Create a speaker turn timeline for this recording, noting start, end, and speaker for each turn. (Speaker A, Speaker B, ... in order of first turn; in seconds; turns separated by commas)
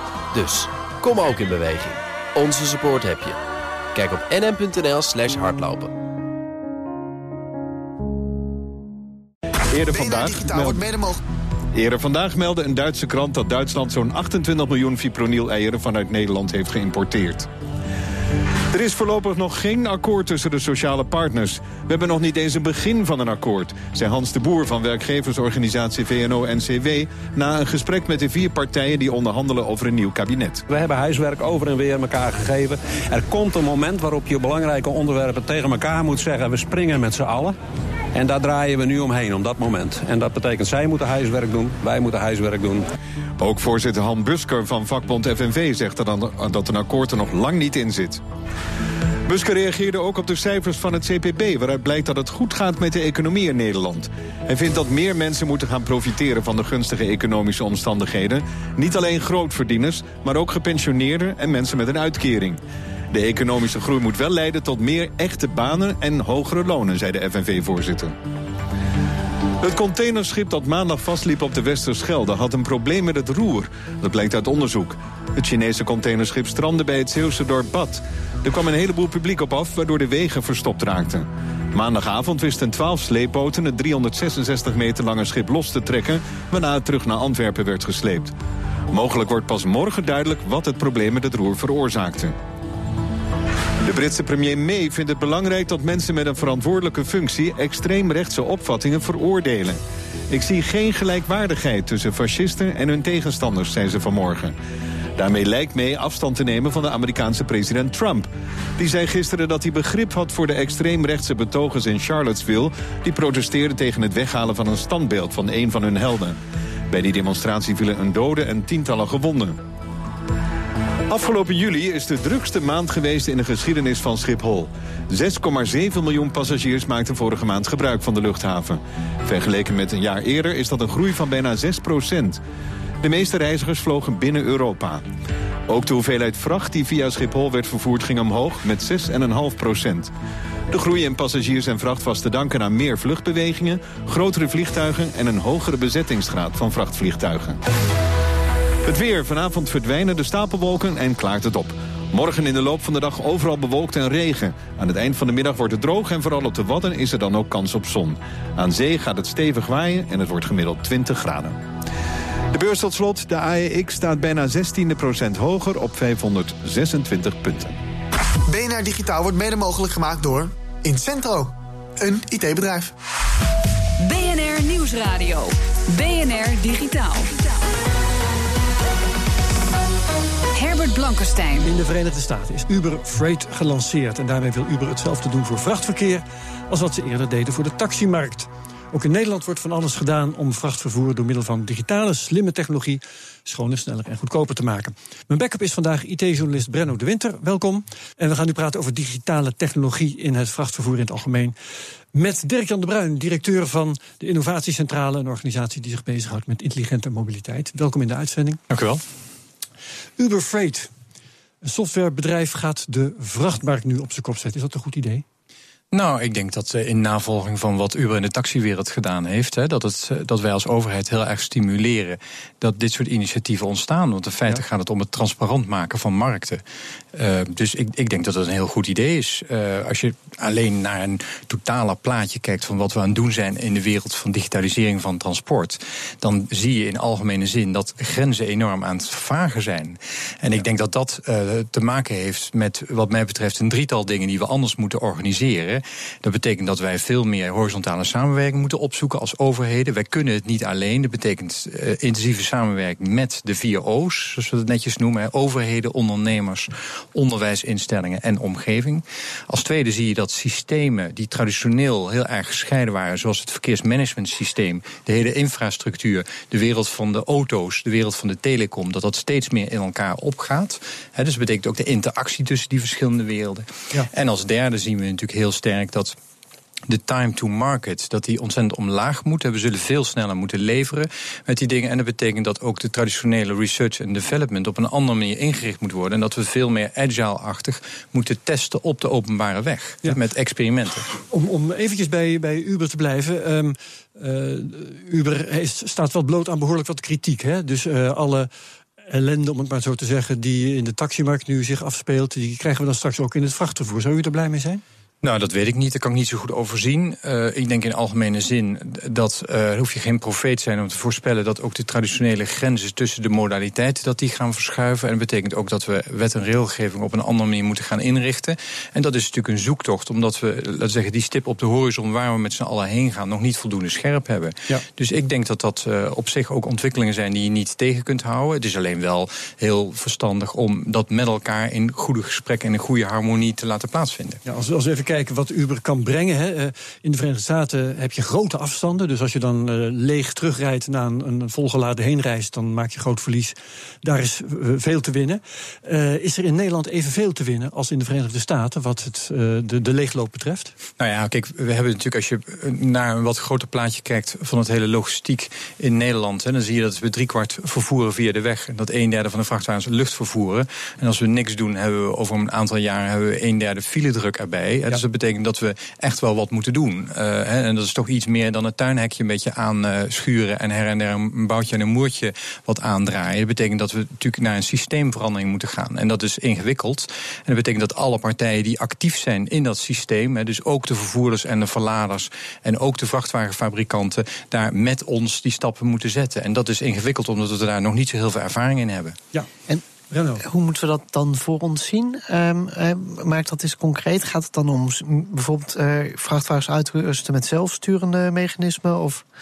Speaker A: 0.3-3.4, Speaker A: 3.9-5.9, Speaker B: 9.7-10.8, Speaker C: 9.9-11.2, Speaker B: 11.8-17.5, Speaker B: 18.7-30.6, Speaker D: 30.7-37.5, Speaker D: 38.1-42.9, Speaker B: 43.4-48.2, Speaker B: 49.3-62.6, Speaker B: 63.1-68.1, Speaker B: 69.6-88.3, Speaker B: 88.9-92.3, Speaker B: 93.8-104.5, Speaker B: 105.2-116.4, Speaker B: 116.9-119.6, Speaker B: 121.1-132.4, Speaker B: 133.0-135.0, Speaker B: 135.7-140.1, Speaker B: 140.7-147.6, Speaker B: 148.9-161.6, Speaker B: 162.5-167.8, Speaker C: 168.5-172.9, Speaker E: 174.0-177.4, Speaker E: 180.5-181.7, Speaker F: 181.6-201.6, Speaker F: 202.1-208.6, Speaker G: 208.7-209.0, Speaker F: 210.2-210.9, Speaker F: 211.6-215.2, Speaker G: 215.9-226.6, Speaker G: 227.1-276.2, Speaker G: 276.9-291.1, Speaker F: 291.3-298.5, Speaker F: 299.1-304.8, Speaker G: 305.2-334.4, Speaker F: 334.5-350.7, Speaker G: 351.0-389.2, Speaker F: 390.1-390.4, Speaker H: 390.4-399.2